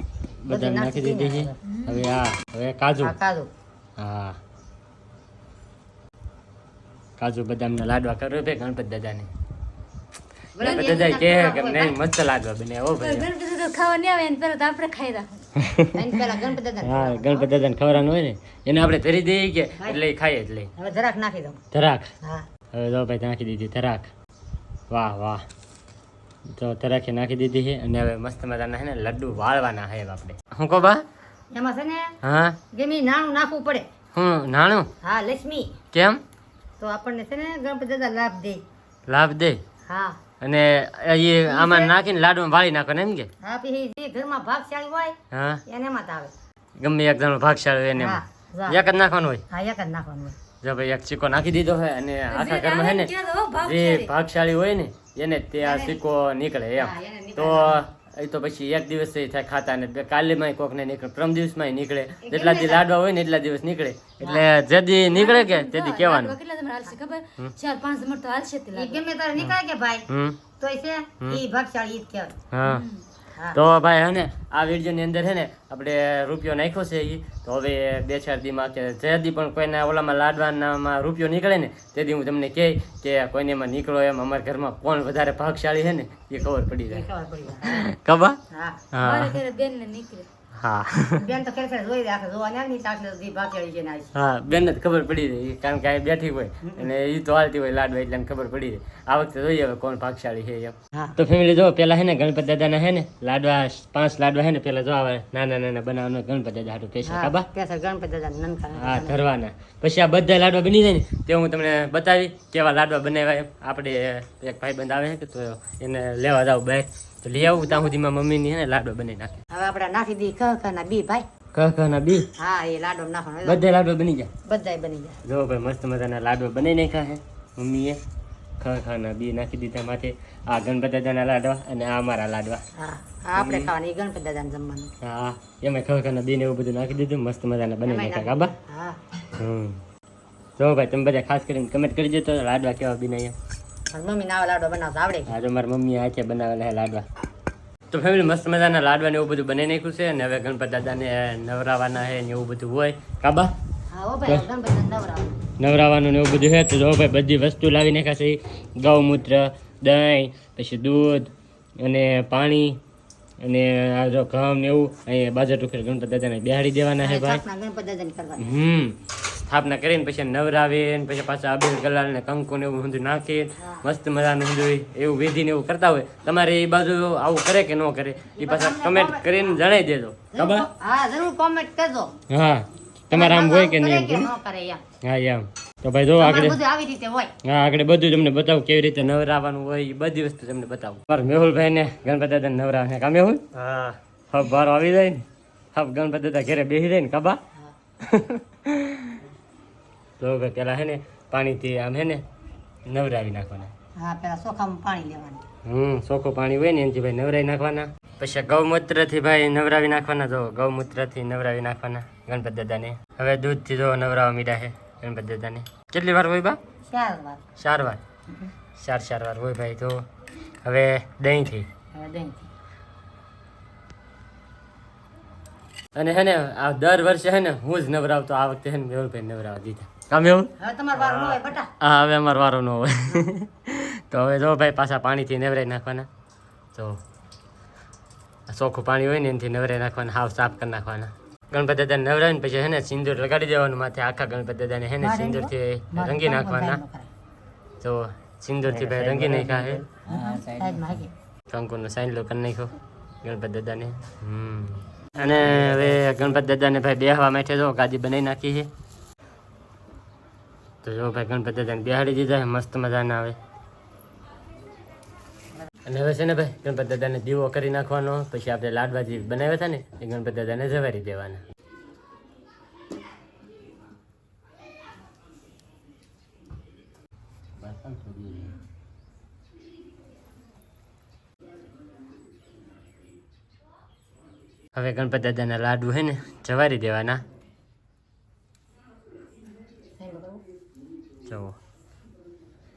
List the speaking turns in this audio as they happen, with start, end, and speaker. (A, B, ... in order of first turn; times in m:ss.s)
0:00.4-0:03.2 A
0:00.5-0:01.6 B
0:01.6-0:02.0 C
0:03.0-0:03.5 B
0:04.0-0:04.4 A
0:07.2-0:09.3 A
0:10.6-0:12.0 B
0:10.6-0:13.3 A
0:13.0-0:15.4 C
0:15.9-0:17.5 B
0:16.8-0:20.7 A
0:20.8-0:21.6 B
0:21.7-0:22.1 A
0:22.7-0:24.1 A
0:24.9-0:25.4 A
0:26.6-0:31.0 A
0:31.5-0:32.1 B
0:32.2-0:32.6 A
0:32.7-0:33.9 B
0:34.1-0:34.9 A
0:35.0-0:35.8 B
0:35.9-0:36.2 A
0:36.8-0:38.6 B
0:39.1-0:39.6 A
0:39.9-0:40.2 B
0:40.4-0:43.3 A
0:41.4-0:42.0 B
0:43.4-0:45.1 B
0:45.3-0:45.6 A
0:45.7-0:46.3 B
0:46.8-0:49.4 A
0:48.0-0:48.8 B
0:49.5-0:50.4 B
0:50.6-1:06.4 A
0:52.3-0:54.1 C
0:55.6-0:56.0 B
0:56.8-0:57.8 B
1:02.2-1:02.9 B
1:04.2-1:04.5 B
1:05.1-1:09.0 C
1:08.7-1:10.1 B
1:10.1-1:10.4 A
1:10.6-1:12.4 B
1:12.5-1:12.8 A
1:12.6-1:13.1 C
1:13.5-1:27.1 A
1:26.4-1:27.9 B
1:27.6-1:28.4 A
1:28.5-1:28.8 B
1:28.9-1:29.4 A
1:29.0-1:30.3 C
1:30.5-1:31.3 A
1:31.2-1:34.1 B
1:34.1-1:47.5 A
1:36.6-1:36.9 B
1:47.0-1:49.2 B
1:48.7-1:59.4 A
1:59.5-2:01.3 B
2:01.5-2:02.3 A
2:02.4-2:03.6 B
2:03.4-2:04.3 A
2:04.5-2:05.2 B
2:05.2-2:08.0 A
2:08.6-2:12.6 A
2:12.8-2:14.9 B
2:13.3-2:13.7 A
2:15.0-2:18.5 A
2:17.8-2:19.0 B
2:19.4-2:19.8 A
2:20.6-2:23.4 A
2:23.9-2:25.3 B
2:25.3-2:27.0 A
2:27.9-2:33.5 A
2:33.9-2:35.4 B
2:35.6-2:42.8 A
2:43.4-2:47.4 A
2:47.0-2:48.6 B
2:48.4-3:00.7 A
2:58.4-2:59.6 B
3:00.3-3:02.2 B
3:02.3-3:04.3 A
3:03.1-3:04.8 B
3:05.0-3:06.6 A
3:06.2-3:07.3 B
3:07.4-3:15.2 A
3:15.7-3:17.4 A
3:18.0-3:19.2 A
3:20.2-3:22.2 A
3:22.9-3:23.7 A
3:24.0-3:25.4 B
3:25.6-3:36.6 A
3:36.9-3:37.4 B
3:37.6-3:38.0 A
3:38.8-3:40.0 A
3:40.6-3:41.7 A
3:41.9-3:42.5 B
3:46.0-3:56.1 A
3:50.6-3:51.7 B
3:56.7-3:57.0 A
3:58.5-4:06.8 A
4:05.0-4:07.1 B
4:07.8-4:09.9 A
4:09.4-4:11.1 B
4:10.1-4:10.5 C
4:11.5-4:18.7 A
4:20.8-4:23.4 A
4:25.9-4:31.4 A
4:37.6-4:38.6 A
4:44.7-4:47.2 A
4:50.0-4:50.4 B
4:51.3-4:51.6 A